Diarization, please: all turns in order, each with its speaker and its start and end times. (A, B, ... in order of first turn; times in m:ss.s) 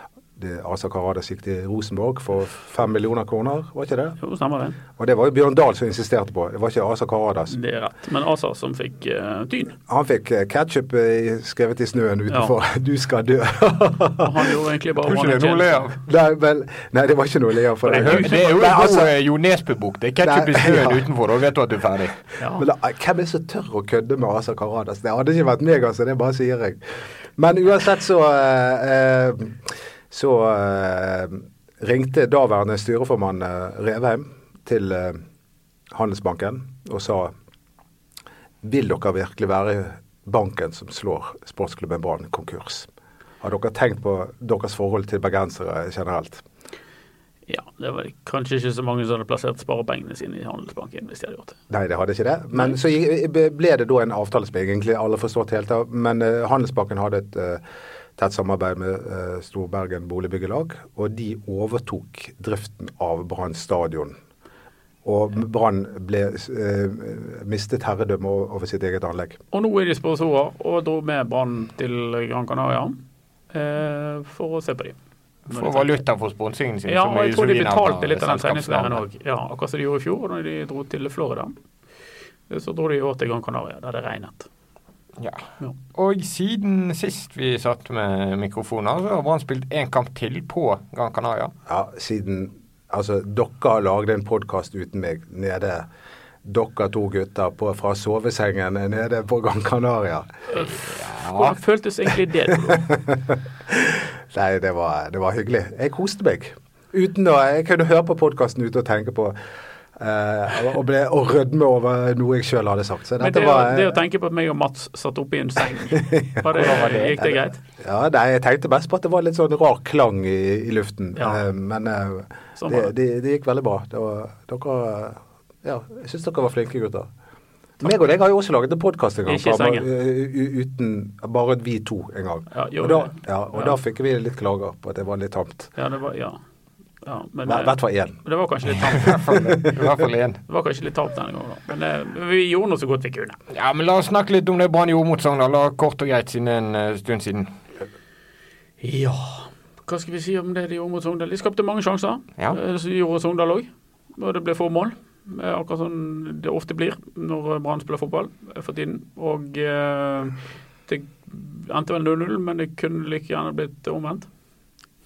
0:00.4-0:04.2 A
0:04.2-0:04.8 B
0:05.0-0:07.6 A
0:07.5-0:09.8 B
0:09.9-0:14.4 A
0:14.2-0:15.9 B
0:15.0-0:16.0 C
0:16.0-0:19.1 A
0:17.8-0:18.4 B
0:18.0-0:22.2 C
0:20.2-0:21.0 A
0:22.4-0:22.6 B
0:22.6-0:35.2 A
0:35.9-0:37.3 A
0:38.6-0:42.9 A
0:43.4-0:46.4 A
0:47.5-0:51.6 B
0:51.7-0:57.6 A
0:58.2-1:04.2 A
1:05.0-1:09.4 A
1:09.5-1:15.0 B
1:15.5-1:15.9 B
1:15.5-1:19.0 C
1:16.9-1:21.5 B
1:22.5-1:24.5 B
1:25.2-1:31.5 C
1:31.7-1:35.9 A
1:36.4-1:40.3 A
1:40.5-1:40.8 B
1:40.8-1:41.6 C
1:41.3-1:42.9 B
1:42.7-1:49.4 A
1:50.0-1:54.0 A
1:53.2-1:57.6 B
1:55.9-2:07.1 A
1:56.6-1:57.2 C
2:01.2-2:01.4 B
2:02.6-2:02.9 B
2:07.8-2:15.7 A
2:09.2-2:09.9 B
2:12.5-2:13.8 B
2:15.8-2:16.4 B
2:17.0-2:19.2 B
2:17.5-2:18.2 A
2:18.9-2:20.4 C
2:19.3-2:19.6 A
2:20.5-2:23.4 B
2:23.5-2:27.5 C
2:28.8-2:44.3 B